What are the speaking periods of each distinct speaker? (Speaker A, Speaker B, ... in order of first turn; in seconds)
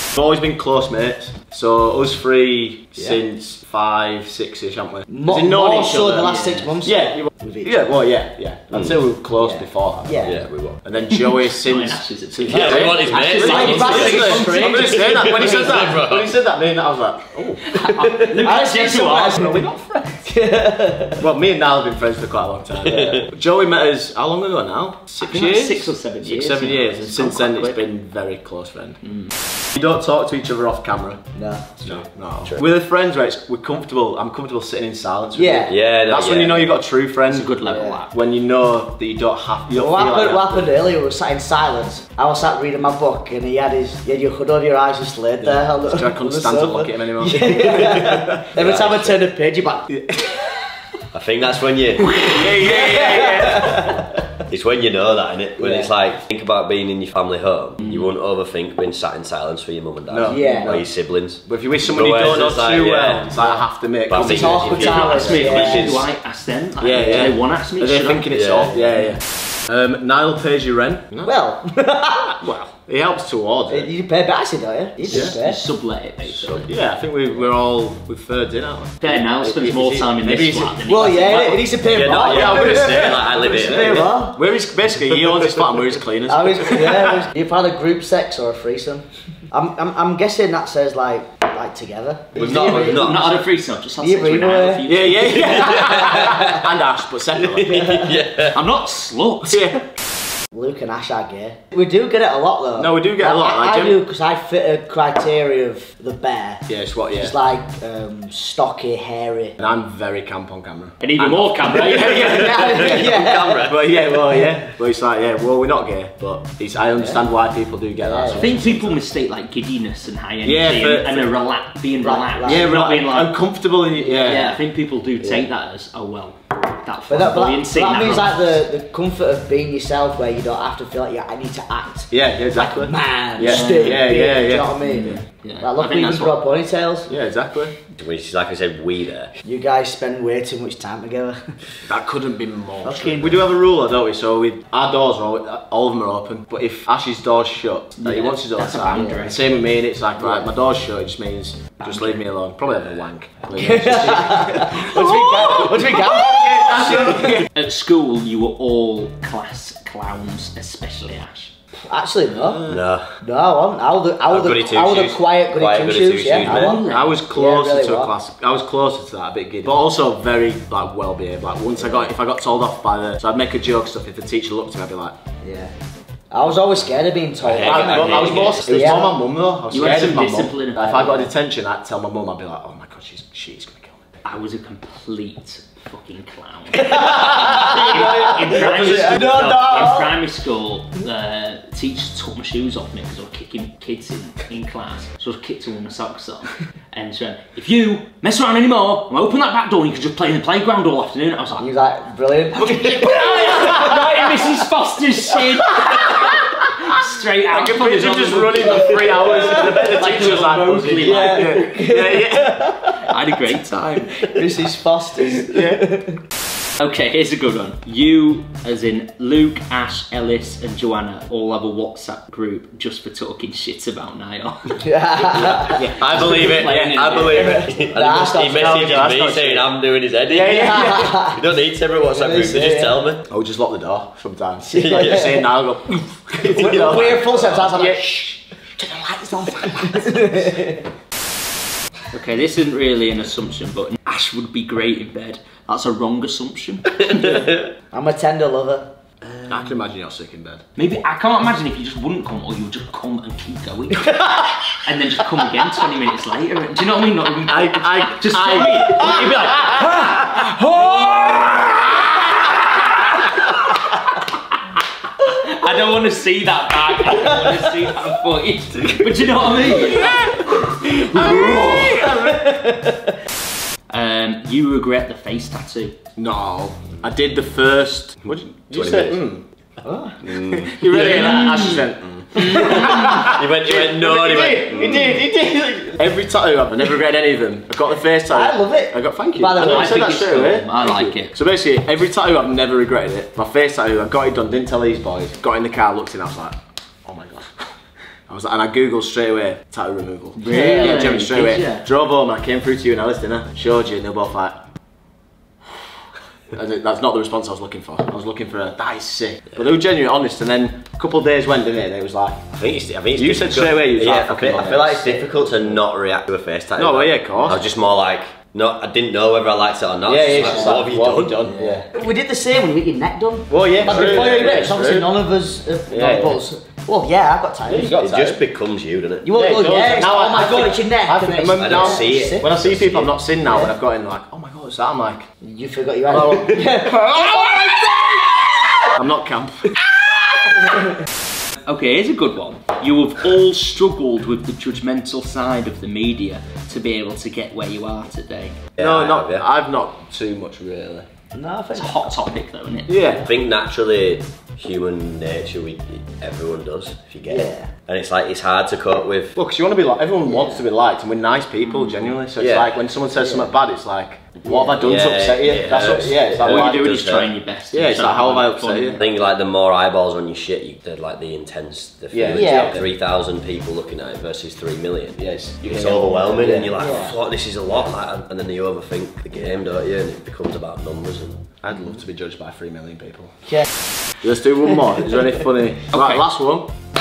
Speaker A: 0.1-10.2, 10.8-17.6, 21.2-29.0, 29.8-31.2, 31.8-37.5, 38.1-40.7, 45.4-47.8, 49.9-50.6, 52.3-53.9, 60.1-60.8, 61.4-65.4, 66.8-71.3, 72.7-73.9, 75.1-75.4, 76.7-80.8, 82.2-87.2, 94.9-98.0, 99.5-99.9, 102.8-104.0, 106.7-107.3, 109.6-119.0, 120.4-121.3, 122.4-124.6, 125.2-125.5, 132.1-135.2, 137.1-137.7, 141.8-157.4, 162.4-162.8, 166.5-175.2, 177.6-184.0, 207.5-212.8, 215.4-215.9, 225.8-227.1, 228.6-229.7, 233.3-238.1, 249.5-250.6, 257.5-259.8, 271.0-272.3, 276.2-279.4, 280.5-297.7, 298.3-304.6, 306.5-312.5, 313.2-315.2, 316.8-317.7, 320.1-321.9, 323.5-325.1, 325.9-326.4, 327.7-328.4, 329.3-335.3, 336.1-337.9, 338.9-339.8, 348.8-351.1, 352.9-353.3, 359.4-367.0, 367.7-369.1, 372.1-372.9, 375.2-376.7, 381.6-383.3, 384.2-386.7
Speaker B: 5.1-7.8, 9.4-10.4, 12.6-15.8, 18.4-21.2, 31.4-31.8, 35.3-35.8, 37.7-38.0, 39.7-49.9, 52.9-53.7, 55.6-55.9, 60.3-60.8, 64.1-65.9, 71.2-72.4, 73.7-75.6, 80.8-84.4, 86.3-93.1, 94.0-94.9, 95.8-96.4, 97.6-98.2, 100.5-109.6, 112.4-113.7, 117.0-117.2, 118.0-118.5, 122.0-122.7, 124.0-124.6, 127.1-137.1, 139.4-141.6, 142.8-143.4, 148.9-149.4, 150.2-150.5, 153.6-157.5, 161.9-162.7, 163.2-168.1, 175.4-175.7, 176.3-179.2, 188.1-190.1, 201.6-203.9, 209.3-210.1, 211.0-213.0, 214.2-216.2, 224.8-225.9, 227.3-229.0, 230.3-231.4, 232.2-233.0, 234.7-235.5, 236.5-240.9, 247.9-248.9, 271.6-272.6, 279.8-280.2, 284.9-285.8, 288.3-290.1, 300.5-301.0, 320.3-320.8, 321.5-328.0, 329.2-332.5, 333.3-333.7, 335.4-338.9, 351.3-352.2, 357.3-357.7, 363.1-363.5, 364.5-364.7, 372.3-372.7, 376.7-377.1
Speaker C: 6.2-6.7, 11.1-14.7, 17.7-20.0, 25.2-27.9, 29.0-29.3, 37.3-38.1, 64.7-68.3, 72.4-72.7, 75.1-76.7, 79.0-81.7, 92.4-95.9, 98.5-99.7, 111.0-112.7, 118.3-123.4, 124.2-128.6, 133.4-134.1, 134.8-136.4, 148.0-149.5, 151.8-152.3, 157.5-161.5, 166.4-167.2, 178.1-178.6, 179.7-181.3, 184.2-201.7, 202.5-211.7, 212.9-214.2, 216.8-224.9, 226.1-227.7, 242.1-247.5, 250.8-263.5, 265.2-272.3, 273.9-276.0, 289.5-291.4, 300.4-301.9, 341.7-348.6, 351.7-353.2, 366.4-369.0, 385.9-386.2
Speaker D: 10.2-10.8, 12.5-16.3, 22.9-23.2, 35.7-36.7, 48.0-49.2, 51.1-52.8, 54.5-66.1, 68.3-68.8, 76.3-76.7, 81.9-84.1, 92.3-93.4, 97.4-98.6, 112.6-114.1, 138.0-139.3, 162.7-163.2, 164.3-166.8, 177.4-179.0, 225.5-233.2, 234.7-235.3, 236.4-237.5, 278.7-279.3, 280.2-285.2, 312.5-321.4, 323.8-324.8, 328.0-329.4, 331.5-333.1, 348.8-349.4, 353.2-359.4, 362.4-362.8, 364.8-367.3, 369.0-381.4